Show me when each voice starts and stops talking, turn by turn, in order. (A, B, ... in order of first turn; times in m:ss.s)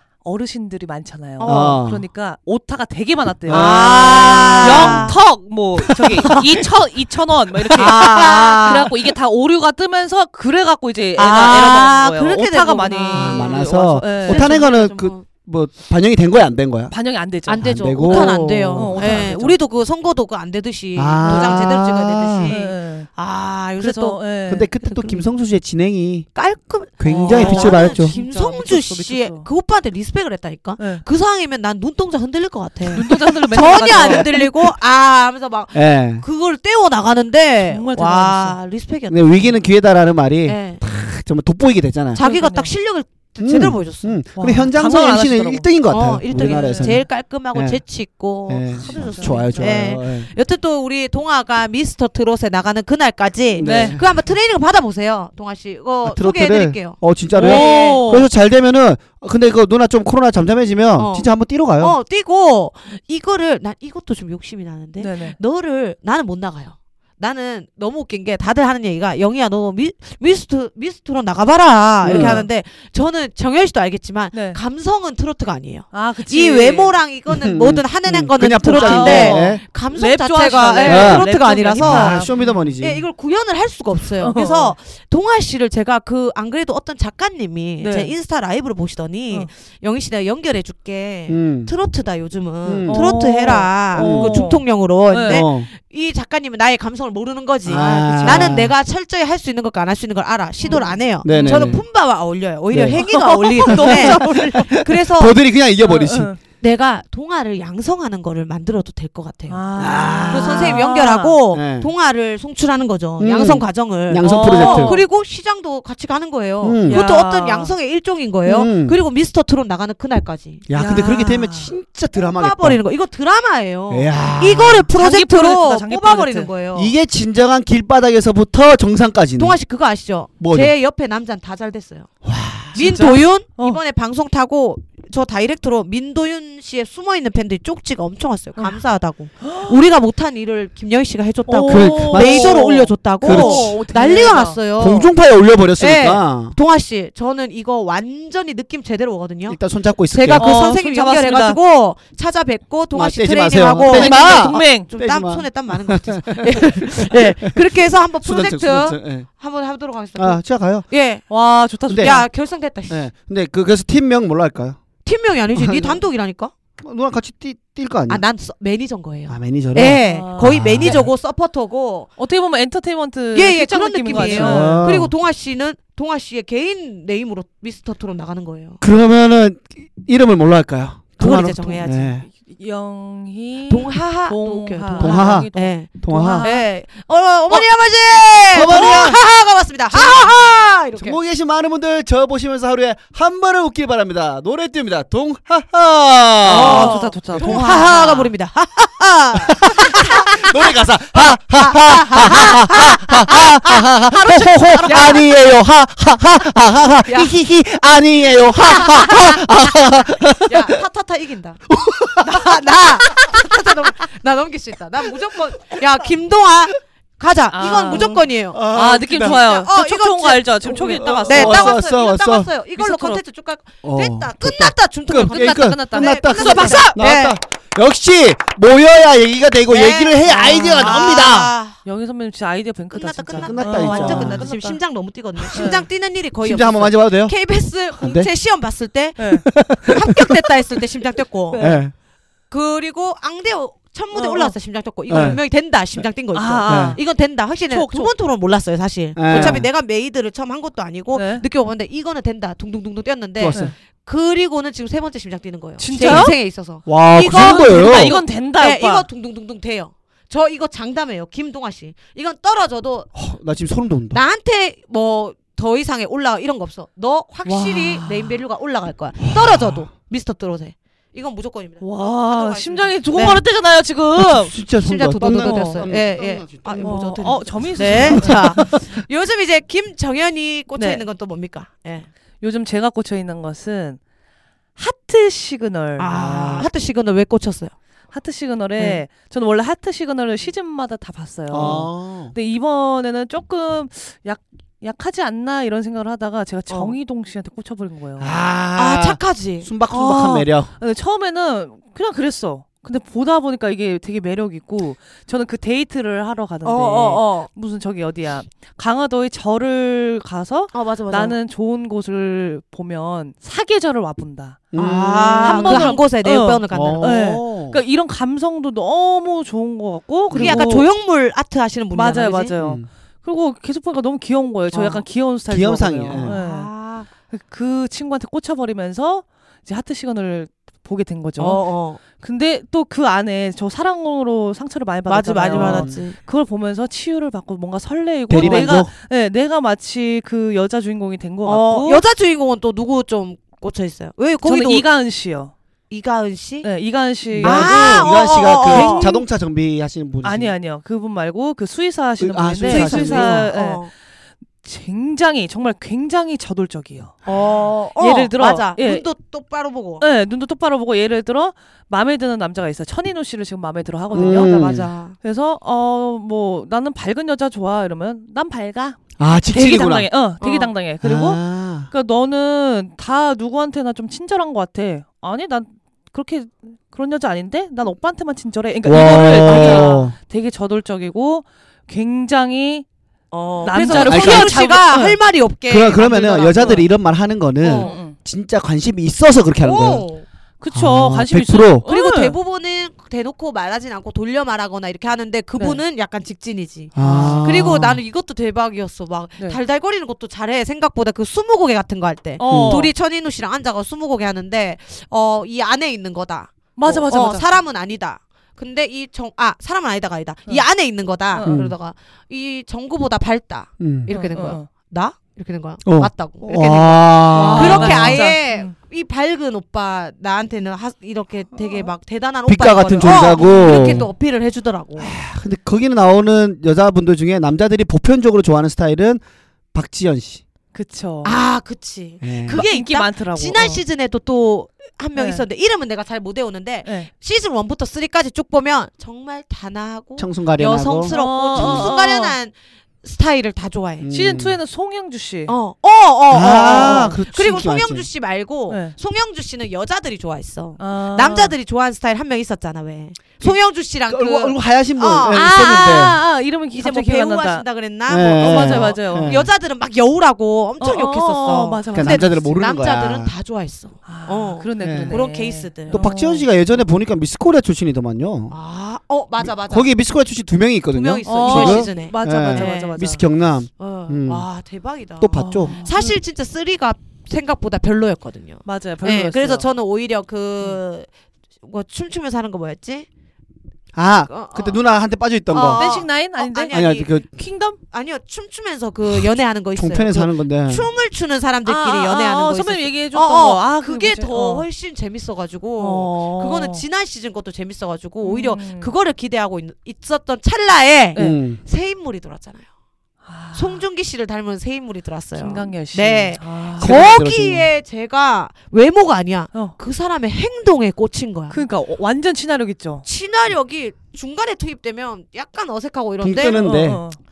0:00.2-0:14.6 A
0:01.4-0:01.8 B
0:01.4-0:02.0 C
0:03.5-0:05.2 C
0:03.5-0:05.2 B
0:06.0-0:06.4 C
0:07.7-0:08.9 B
0:11.2-0:15.2 B
0:13.1-0:16.9 C
0:16.9-0:19.6 A
0:17.5-0:24.2 B
0:17.6-0:19.3 C
0:21.0-0:22.6 C
0:21.2-0:21.7 A
0:22.5-0:23.1 A
0:23.8-0:24.7 A
0:24.5-0:26.3 C
0:24.8-0:25.2 B
0:26.4-0:39.6 B
0:27.0-0:28.2 C
0:27.1-0:29.5 A
0:30.8-0:31.0 A
0:32.9-0:34.7 A
0:33.8-0:34.5 C
0:35.7-0:36.2 C
0:37.7-0:38.6 A
0:39.1-0:42.2 C
0:40.5-0:40.8 B
0:42.2-0:44.2 B
0:42.2-0:42.7 A
0:43.4-0:47.8 C
0:44.4-0:45.7 A
0:45.9-0:58.2 B
0:46.3-0:47.0 A
0:48.5-0:50.3 C
0:48.8-0:50.0 A
0:53.6-0:54.1 C
0:53.6-0:54.0 A
0:56.0-1:02.0 C
0:57.4-0:58.3 A
1:01.0-1:22.3 B
1:05.0-1:05.4 A
1:12.0-1:12.4 C
1:12.1-1:12.4 A
1:14.3-1:14.6 A
1:15.9-1:17.0 A
1:17.3-1:19.6 C
1:18.7-1:22.7 A
1:20.8-1:23.0 C
1:22.8-1:45.4 B
1:24.2-1:24.8 A
1:27.8-1:28.1 A
1:31.3-1:31.7 C
1:32.6-1:33.1 C
1:32.9-1:35.5 A
1:34.0-1:34.5 C
1:35.3-1:35.7 C
1:37.7-1:38.7 C
1:37.8-1:38.6 A
1:40.6-1:41.8 A
1:41.2-1:41.8 C
1:42.7-1:43.0 C
1:43.0-1:44.7 A
1:43.7-1:46.3 C
1:45.8-1:46.4 A
1:46.6-1:49.7 B
1:49.5-1:51.4 A
1:49.8-1:50.8 C
1:50.3-2:00.6 B
1:51.5-1:51.9 C
1:53.2-1:55.0 C
1:54.2-1:55.0 A
1:56.6-1:57.0 C
1:56.9-1:57.7 A
1:58.4-1:59.0 C
2:00.7-2:02.8 C
2:00.8-2:01.7 A
2:02.2-2:06.9 B
2:03.9-2:04.9 C
2:05.0-2:06.5 A
2:06.8-2:09.6 C
2:09.4-2:12.1 B
2:10.4-2:10.7 C
2:12.2-2:12.8 C
2:12.7-2:25.1 B
2:12.8-2:13.8 A
2:19.4-2:19.8 A
2:21.5-2:24.6 A
2:21.7-2:23.8 C
2:24.8-2:26.6 C
2:25.8-2:29.6 B
2:29.5-2:30.5 C
2:30.1-2:41.2 B
2:30.4-2:31.6 A
2:32.9-2:39.3 C
2:33.9-2:34.9 A
2:40.2-2:40.9 C
2:41.3-2:42.3 A
2:41.9-2:42.2 C
2:42.0-2:43.0 B
2:42.9-2:44.8 C
2:45.0-2:46.5 B
2:45.5-2:46.0 C
2:46.8-2:48.2 C
2:48.1-2:52.1 B
2:49.3-2:51.1 C
2:49.8-2:51.0 A
2:52.2-2:54.9 A
2:53.3-2:58.8 B
2:54.1-2:55.1 C
2:58.8-3:02.2 C
3:01.2-3:02.2 B
3:02.2-3:06.7 A
3:03.7-3:11.2 B
3:05.0-3:06.5 C
3:08.5-3:09.2 C
3:09.9-3:10.4 C
3:11.0-3:18.0 C
3:16.4-3:25.3 B
3:16.5-3:18.3 A
3:19.5-3:30.8 C
3:27.0-3:27.3 B
3:28.7-3:29.8 B
3:30.4-3:31.6 B
3:31.7-3:33.5 C
3:32.2-3:47.4 B
3:37.5-3:41.8 A
3:37.9-3:39.4 C
3:40.9-3:42.5 C
3:42.8-3:43.2 A
3:43.8-3:51.5 C
3:45.2-3:46.9 A
3:49.7-3:51.8 B
3:50.3-3:51.0 A
3:51.8-3:54.8 A
3:52.9-4:01.6 B
3:53.4-3:54.5 C
3:55.5-3:55.9 A
3:56.4-3:57.4 C
3:58.0-3:58.3 C
3:59.2-3:59.5 A
3:59.5-4:00.4 C
4:01.5-4:01.8 A
4:01.6-4:01.9 C
4:02.5-4:23.1 B
4:04.1-4:04.6 A
4:05.1-4:05.4 C
4:06.3-4:07.0 A
4:06.7-4:07.0 C
4:07.6-4:08.1 A
4:09.2-4:09.7 C
4:09.3-4:09.6 A
4:11.1-4:11.4 A
4:13.4-4:13.7 C
4:15.8-4:16.4 A
4:16.0-4:16.3 C
4:16.9-4:18.2 C
4:17.2-4:19.1 A
4:23.2-4:24.2 C
4:24.1-4:33.4 B
4:27.4-4:28.4 A
4:29.3-4:29.9 C
4:31.8-4:34.6 A
4:34.2-4:38.7 C
4:34.8-4:42.1 B
4:35.2-4:35.9 A
4:36.8-4:38.8 A
4:40.8-4:41.0 A
4:42.4-4:44.0 A
4:44.8-4:46.2 A
4:46.0-4:47.7 B
4:46.2-4:46.7 C
4:48.1-4:58.4 A
4:48.8-4:49.0 B
4:51.5-4:52.3 C
4:56.7-4:57.0 B
4:58.2-5:00.7 C
4:58.8-4:59.7 B
4:59.9-5:14.6 A
5:06.6-5:07.5 B
5:10.7-5:11.4 B
5:14.7-5:16.0 C
5:14.8-5:17.2 B
5:15.4-5:20.9 A
5:16.7-5:17.8 C
5:20.3-5:20.8 C
5:20.3-5:22.6 B
5:21.9-5:26.7 A
5:22.6-5:22.9 C
5:24.7-5:25.0 B
5:25.5-5:26.4 C
5:26.2-5:27.1 B
5:27.3-5:42.0 A
5:31.4-5:32.0 B
5:35.1-5:36.2 B
5:35.5-5:36.0 C
5:38.3-5:38.9 C
5:38.4-5:38.8 B
5:41.4-5:44.8 B
5:44.4-5:45.5 A
5:45.9-5:46.7 B
5:46.6-5:49.2 A
5:47.3-5:50.5 C
5:47.4-5:49.2 B
5:50.2-5:53.9 A
5:52.2-5:53.5 C
5:52.6-5:53.9 B
5:54.6-5:59.0 A
5:57.2-6:00.0 B
6:00.0-6:04.6 A
6:04.1-6:04.9 C
6:04.1-6:05.2 B
6:05.2-6:22.8 A
6:09.2-6:10.1 C
6:10.4-6:10.7 B
6:11.0-6:11.9 C
6:18.8-6:20.2 C
6:19.0-6:20.0 B
6:23.3-6:26.8 B
6:23.6-6:25.2 A
6:23.9-6:24.8 C
6:25.7-6:30.0 C
6:26.4-6:26.9 A
6:27.6-6:28.0 B
6:27.7-6:28.2 A
6:29.6-6:30.2 B
6:30.6-6:32.4 A
6:30.7-6:31.8 C
6:31.8-7:05.1 B
6:37.0-6:38.0 C
6:37.0-6:37.7 A
6:42.4-6:42.9 A
6:42.5-6:42.9 C
6:46.8-6:47.5 A
6:51.3-6:51.6 A
6:51.4-6:51.7 C
6:53.8-6:54.1 C
6:54.1-6:54.7 A
6:55.8-6:58.2 C
6:57.2-6:58.7 A
7:02.5-7:04.1 C
7:03.0-7:04.0 A
7:05.0-7:09.2 C
7:09.7-7:10.4 C
7:10.7-7:11.4 A
7:11.2-7:24.1 B
7:12.2-7:12.6 C
7:12.5-7:13.8 A
7:15.2-7:15.4 A
7:20.2-7:22.0 C
7:21.1-7:22.4 A
7:24.0-7:24.6 C
7:24.1-7:25.5 A
7:25.5-7:36.1 B
7:26.3-7:28.1 C
7:26.6-7:27.2 A
7:28.7-7:29.0 A
7:30.8-7:31.5 A
7:34.1-7:36.2 C
7:35.3-7:37.7 A
7:36.7-7:46.0 B
7:38.1-7:39.5 C
7:38.4-7:39.4 A
7:40.8-7:42.5 A
7:41.9-7:43.3 C
7:44.0-7:46.5 A
7:44.8-7:45.2 C
7:45.9-7:48.5 C
7:48.5-7:49.9 B
7:49.4-7:54.5 C
7:50.9-7:53.0 B
7:51.2-7:53.2 A
7:53.8-8:01.1 B
7:55.2-7:55.8 C
7:55.4-7:56.2 A
7:58.6-7:59.7 A
8:01.6-8:03.1 B
8:03.9-8:05.9 C
8:04.3-8:04.8 B
8:05.5-8:07.2 B
8:05.7-8:07.8 A
8:06.7-8:07.3 C
8:07.9-8:22.6 B
8:09.8-8:10.9 C
8:11.6-8:14.7 A
8:15.8-8:16.8 A
8:18.2-8:18.9 A
8:21.2-8:21.6 C
8:23.2-8:23.8 A
8:23.5-8:31.6 B
8:25.4-8:27.0 A
8:26.8-8:27.7 C
8:31.5-8:33.0 A
8:33.0-8:36.6 B
8:36.2-8:37.0 C
8:36.6-8:37.2 A